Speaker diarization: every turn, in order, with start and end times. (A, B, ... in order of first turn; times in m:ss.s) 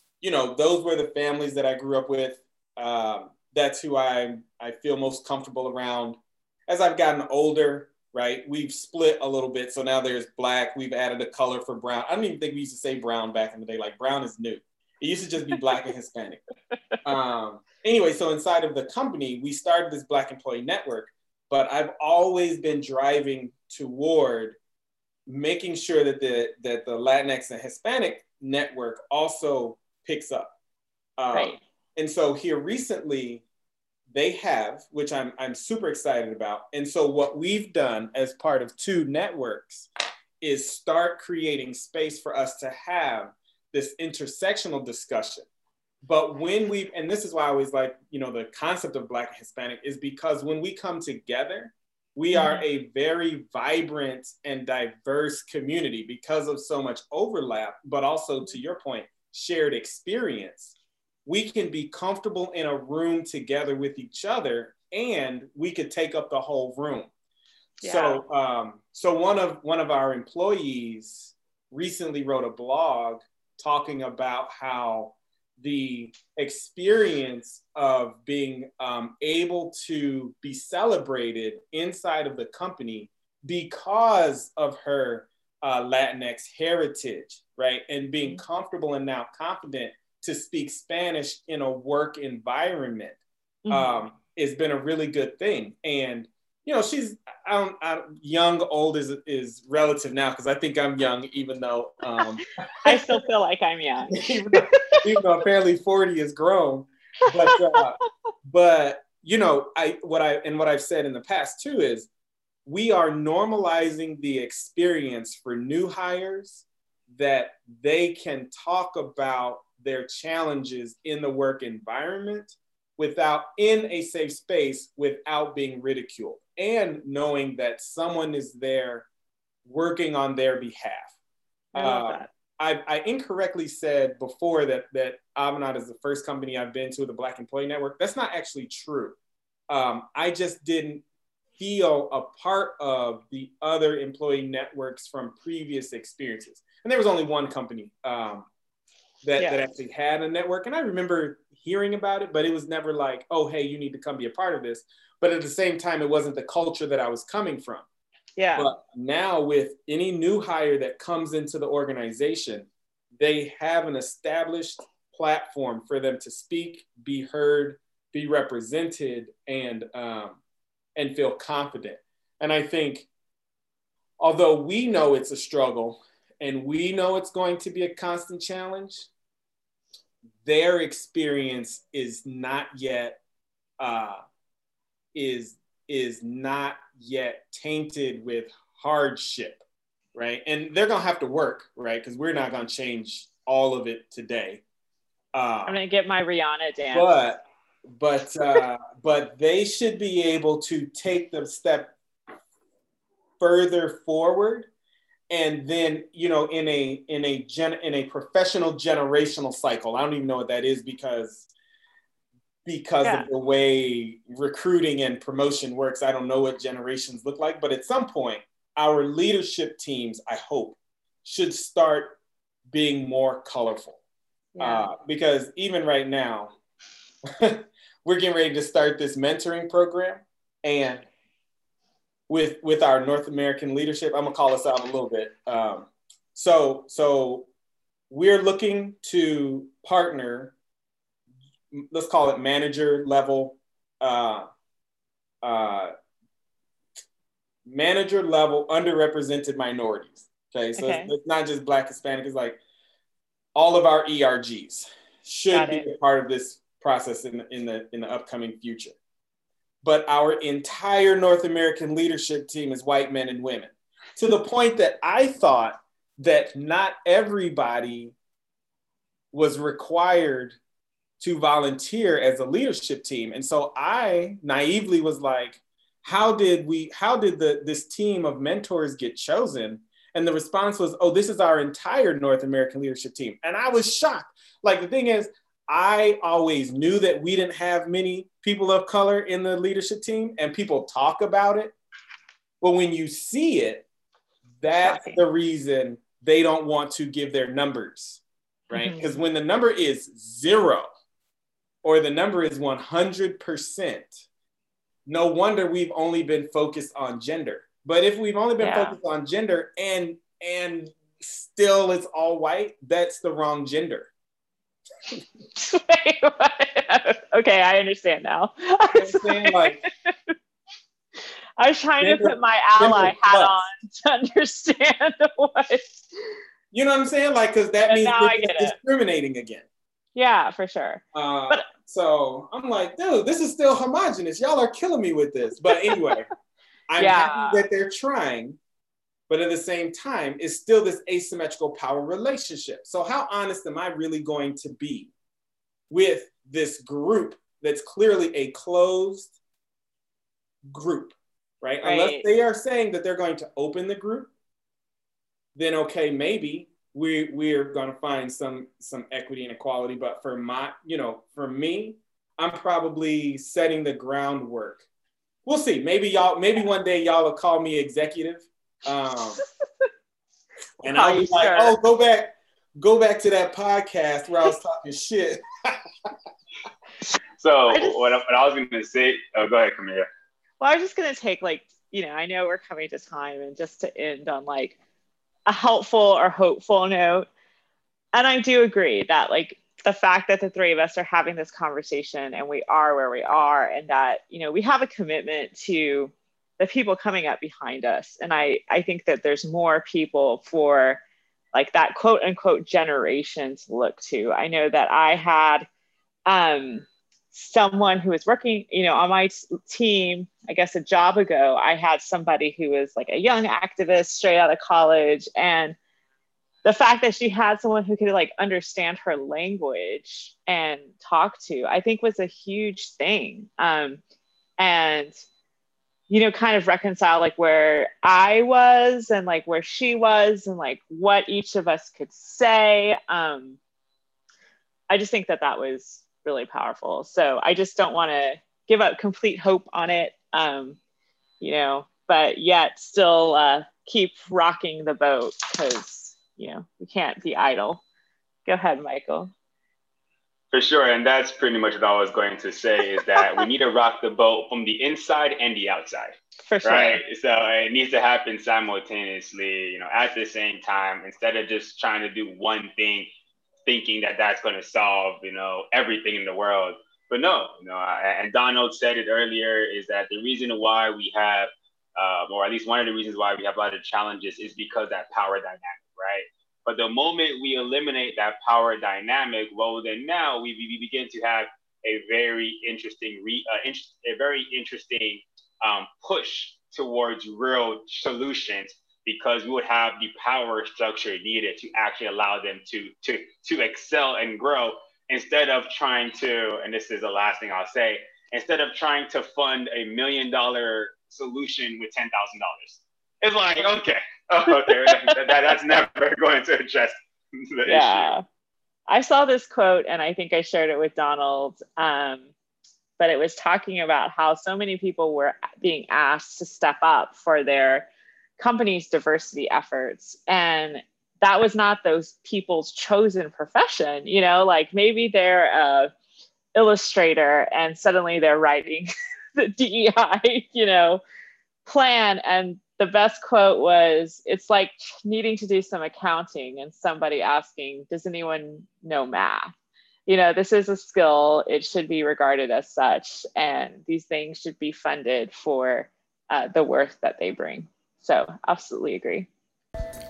0:00.2-0:16.4 A
0:17.0-0:24.6 A
0:25.3-0:30.5 A
0:31.2-0:33.4 A
0:31.3-0:31.6 B
0:34.1-0:39.9 A
0:40.4-0:45.4 A
0:46.0-1:07.1 A
0:52.3-0:52.6 B
1:07.8-1:33.2 A
1:07.8-1:08.2 B
1:33.6-1:34.0 B
1:33.7-1:43.2 A
1:42.8-1:45.1 B
1:44.1-1:52.1 A
1:47.2-1:47.8 B
1:52.6-2:09.1 A
2:09.6-2:11.1 A
2:11.7-2:12.3 B
2:11.8-2:19.2 A
2:19.7-2:21.0 A
2:21.6-2:28.5 A
2:29.2-2:37.8 A
2:29.4-2:29.6 B
2:38.4-2:38.7 B
2:38.6-2:50.4 A
2:51.0-2:53.1 A
2:54.2-2:59.1 A
3:00.4-3:03.2 A
3:03.8-3:04.2 A
3:05.1-3:09.6 A
3:10.1-3:14.6 A
3:15.3-3:15.8 A
3:15.7-3:17.1 B
3:16.9-3:17.4 A
3:17.9-3:21.9 A
3:23.4-3:24.7 A
3:25.3-3:31.5 A
3:32.6-3:42.2 A
3:33.0-3:33.3 B
3:42.7-3:44.0 A
3:44.5-3:44.9 B
3:44.6-3:46.5 A
3:47.2-3:51.0 A
3:52.3-3:57.5 A
3:58.1-4:00.5 A
4:01.7-4:04.5 A
4:05.4-4:05.9 A
4:07.6-4:12.6 A
4:10.8-4:11.1 B
4:13.5-4:18.9 A
4:15.5-4:15.9 B
4:19.8-4:28.1 A
4:29.3-4:30.6 A
4:31.2-4:51.7 A
4:52.6-4:53.8 A
4:54.6-5:00.9 A
4:54.8-4:55.2 B
4:58.7-4:59.2 B
5:01.8-5:04.1 A
5:05.1-5:14.1 A
5:08.6-5:09.0 B
5:15.5-5:20.1 B
5:18.9-5:19.8 A
5:21.6-5:26.3 B
5:22.0-5:23.6 A
5:26.7-5:29.6 A
5:27.9-5:28.8 B
5:30.1-5:31.7 B
5:31.1-5:36.3 A
5:36.9-5:38.6 A
5:37.0-5:37.6 B
5:39.3-5:45.1 A
5:45.9-5:49.3 A
5:50.7-5:54.3 A
5:51.8-5:52.3 B
5:55.5-6:04.8 A
6:05.4-6:09.4 A
6:10.8-6:16.1 A
6:10.8-6:11.8 B
6:17.4-6:20.1 C
6:17.7-6:18.0 B
6:20.6-6:24.8 B
6:25.5-6:27.2 B
6:28.1-6:41.0 B
6:41.5-6:45.7 B
6:46.3-6:55.8 B
6:56.6-7:04.0 B
7:04.6-7:05.1 B
7:06.1-7:13.6 B
7:14.9-7:20.8 B
7:21.4-7:27.8 B
7:28.4-7:29.3 B
7:30.5-7:43.1 C
7:33.1-7:33.5 B
7:36.4-7:37.0 B
7:43.6-8:28.1 C
8:24.5-8:25.6 B
8:27.6-8:28.2 B
8:28.9-8:32.3 B
8:33.0-8:45.9 B
8:46.5-8:51.0 B
8:51.6-8:59.5 B
9:00.1-9:09.3 B